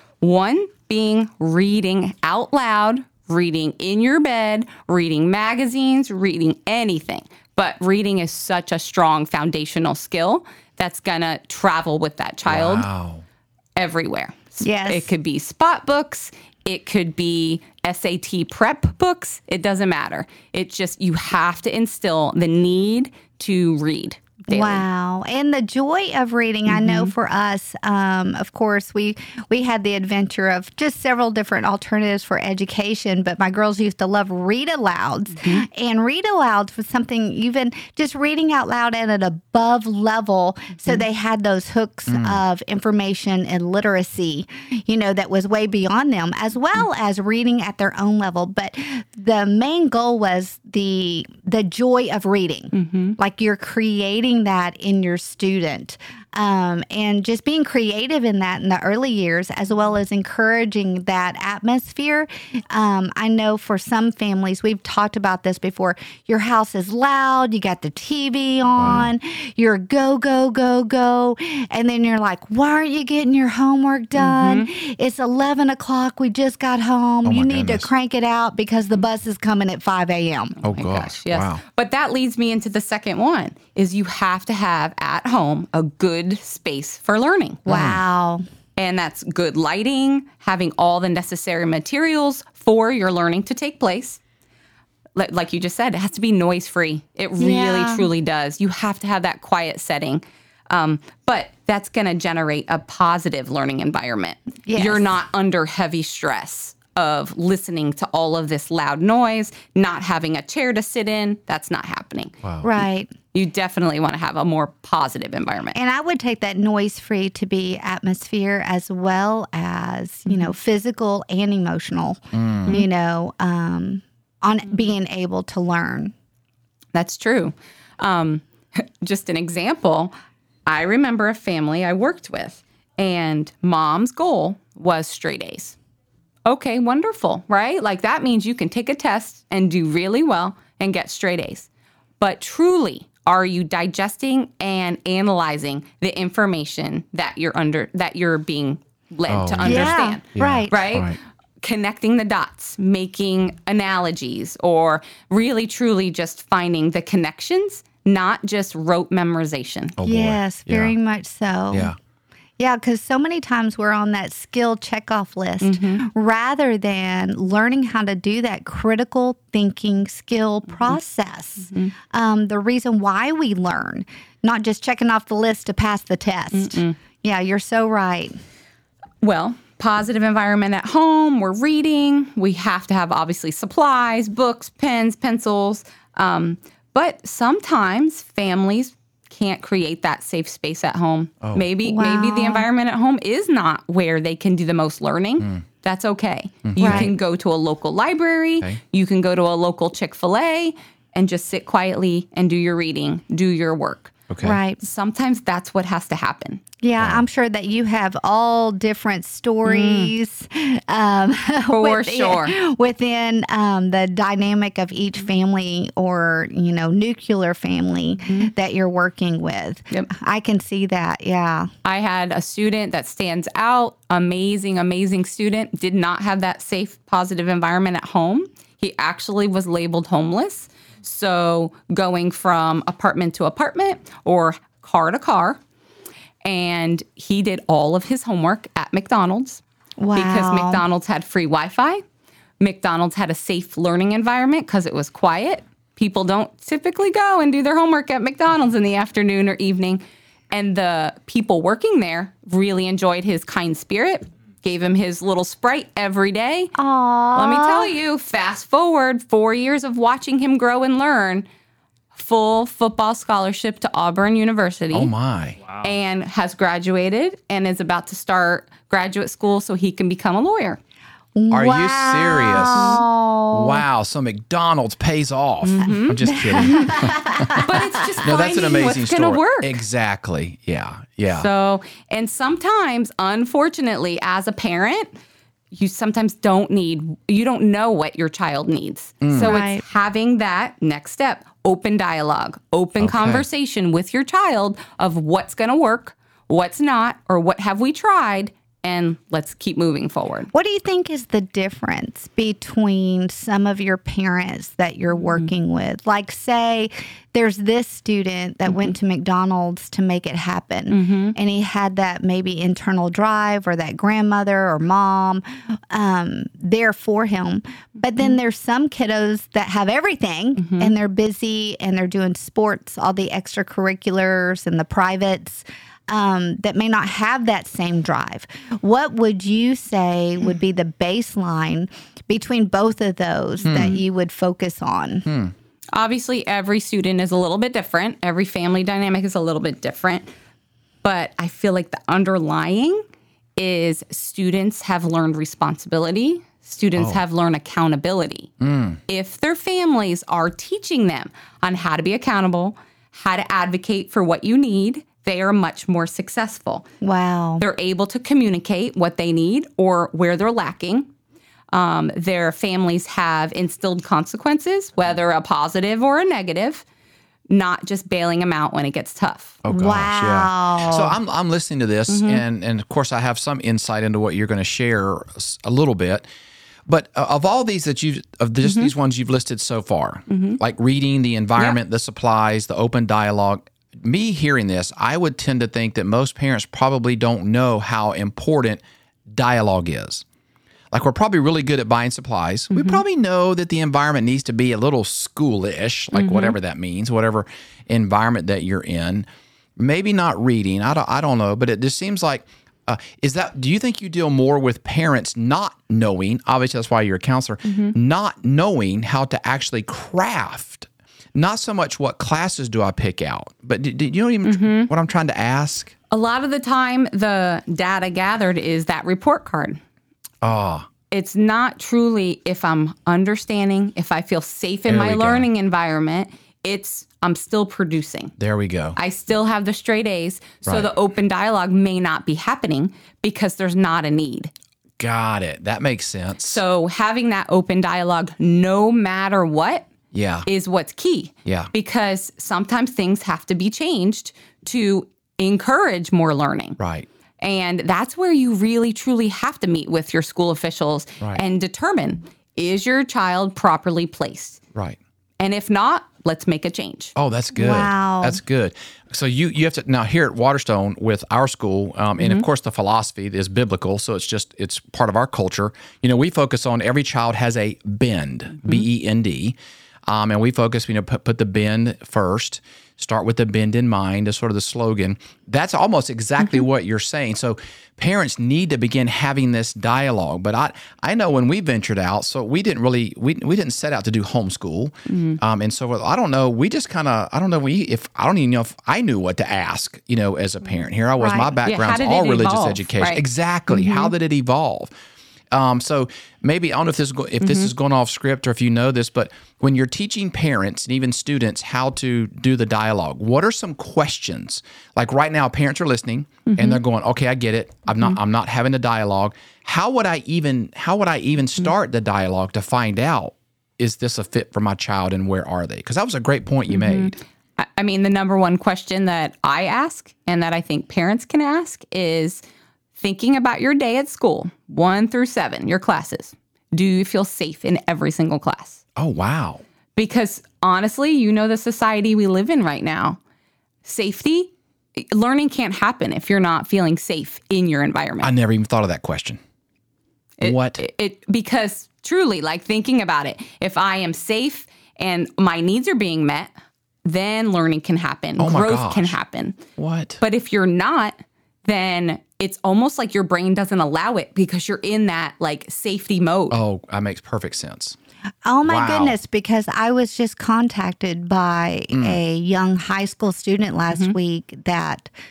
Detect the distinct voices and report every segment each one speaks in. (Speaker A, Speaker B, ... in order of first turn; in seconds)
Speaker A: 0.2-12.9, 13.8-24.8, 26.7-27.1, 52.7-53.2, 74.2-74.7, 80.6-87.6, 88.8-94.2, 95.2-112.3, 113.3-115.8, 126.9-130.1, 130.7-135.8, 136.4-141.7, 142.2-159.9, 165.6-166.1, 171.7-171.9, 176.5-176.9, 179.2-204.1, 204.8-206.6, 209.6-210.1, 211.7-212.5, 221.8-235.6, 236.4-239.6, 240.1-242.0, 242.6-256.7, 257.3-261.5, 262.1-265.1, 265.8-270.8, 272.7-273.0, 275.6-279.8, 281.3-285.1, 285.7-300.5, 310.9-311.4, 320.6-320.9, 335.9-340.3, 341.0-343.0, 343.6-348.5, 349.1-356.9, 357.6-361.1, 361.7-366.8, 367.5-369.6, 372.1-372.4, 378.6-378.9, 380.3-380.6, 392.7-393.0, 396.1-396.6, 407.7-407.9, 414.4-414.9, 416.1-419.8, 421.1-428.3, 429.0-434.5, 436.4-439.9, 440.4-446.8, 447.4-454.6, 455.4-457.1, 462.2-462.4, 485.1-485.4, 491.6-494.1, 497.4-497.7, 506.5-506.8, 516.7-522.4, 523.0-528.8, 530.0-533.2, 533.8-538.3, 540.4-546.5, 547.0-549.6, 550.2-556.6
Speaker B: 12.5-13.2, 42.1-42.4, 68.8-69.1, 77.2-77.9, 80.6-81.6, 87.7-88.0, 112.4-112.7, 122.3-122.8, 149.3-151.2, 160.0-160.9, 161.7-161.9, 196.7-197.1, 204.3-204.6, 207.0-207.2, 264.9-265.6, 271.5-277.6, 278.2-281.5, 289.2-289.6, 293.0-293.4, 333.6-334.0, 335.2-335.5, 348.6-349.0, 369.6-376.3, 376.9-390.2, 390.9-399.2, 399.8-415.9, 420.4-420.9, 424.9-425.5, 428.4-429.0, 435.0-436.6, 440.1-440.5, 441.4-441.7, 446.8-447.1, 457.1-469.6, 470.1-494.9, 495.5-517.2, 529.0-529.6, 538.2-539.4, 540.4-540.8, 548.4-549.1, 549.8-550.2, 556.5-558.0, 558.6-559.1, 561.9-562.2
Speaker C: 14.6-15.1, 24.5-80.6, 87.7-88.4, 97.4-98.1, 104.7-105.0, 112.6-113.1, 115.7-126.1, 149.6-150.8, 160.0-161.9, 162.6-178.4, 191.8-192.7, 196.8-197.1, 204.4-204.8, 206.8-221.7, 240.0-240.8, 256.8-257.9, 271.4-273.8, 276.2-277.8, 289.4-289.8, 300.5-335.2, 357.0-357.6, 369.7-371.2, 457.6-458.4, 491.2-491.6, 558.4-565.1